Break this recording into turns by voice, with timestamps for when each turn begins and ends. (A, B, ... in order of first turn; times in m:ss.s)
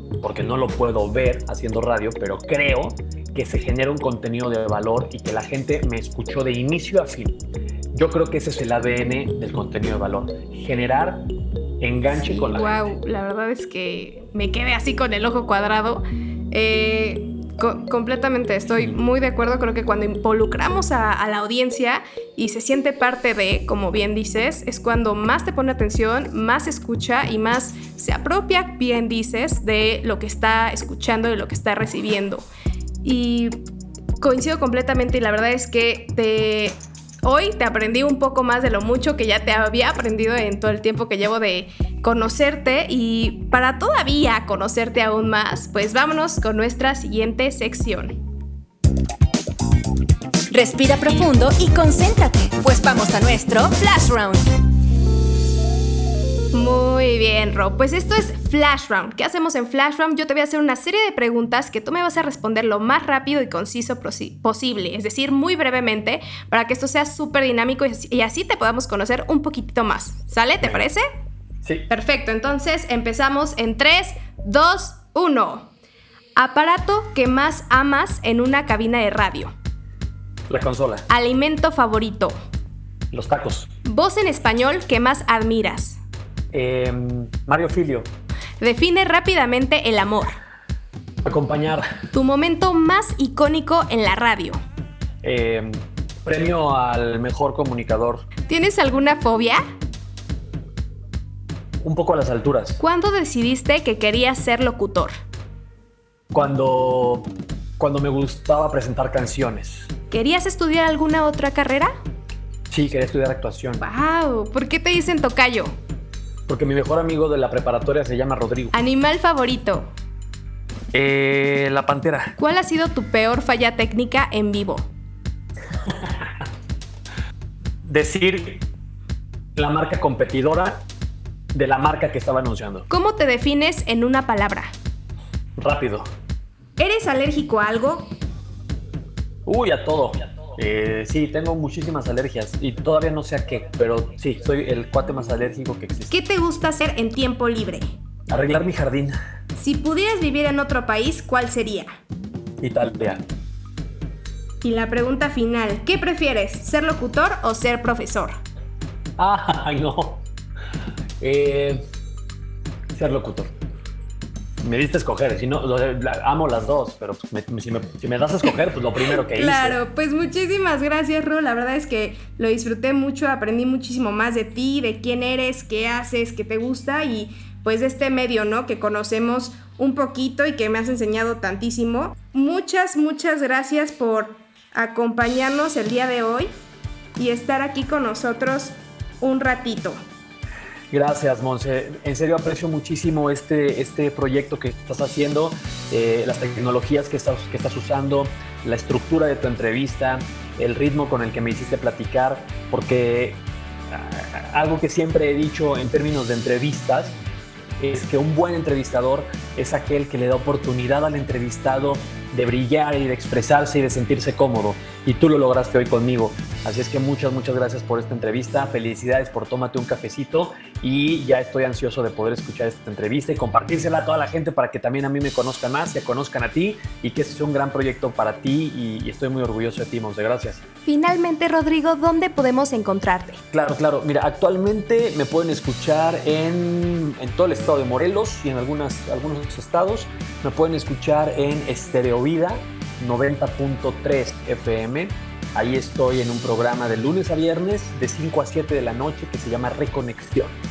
0:00.2-0:07.4 A
0:07.9-0:11.3 A
0:11.8-0:12.7 A
0:12.2-0:32.4 B
0:33.0-0:33.6 B
0:34.2-0:48.2 B
0:50.5-0:54.5 C
0:56.5-1:11.1 B
1:11.9-1:15.7 B
1:16.4-1:19.5 B
1:20.5-1:21.1 A
1:21.1-1:22.4 B
1:23.1-1:23.7 A
1:23.8-1:26.0 B
1:26.5-1:28.1 A
1:28.6-1:30.4 B
1:31.2-1:31.9 A
1:32.1-1:34.6 B
1:35.2-1:38.3 A
1:38.5-1:39.6 B
1:41.8-1:42.8 A
1:42.8-1:45.1 B
1:46.3-1:49.9 A
1:50.1-1:51.9 B
1:52.7-1:53.9 A
1:53.8-1:55.8 B
1:56.5-1:58.8 A
1:58.7-1:59.9 B
2:00.9-2:02.4 A
2:02.4-2:04.9 B
2:05.9-2:06.4 A
2:07.8-2:08.6 A
2:09.6-2:10.8 A
2:11.5-2:12.9 A
2:12.9-2:14.7 B
2:15.6-2:16.1 A
2:16.8-2:18.1 B
2:19.5-2:26.2 A
2:26.1-2:27.9 B
2:28.3-2:29.2 A
2:29.6-2:32.0 B
2:32.6-2:33.2 A
2:34.6-2:38.4 B
2:39.2-2:40.2 A
2:41.2-2:41.8 A
2:42.9-2:43.5 A
2:44.6-2:49.8 A
2:49.2-3:06.5 B
3:07.2-3:10.0 B
3:10.9-3:27.2 A
3:27.8-3:50.6 A
3:50.9-3:53.4 B
3:53.5-4:10.6 A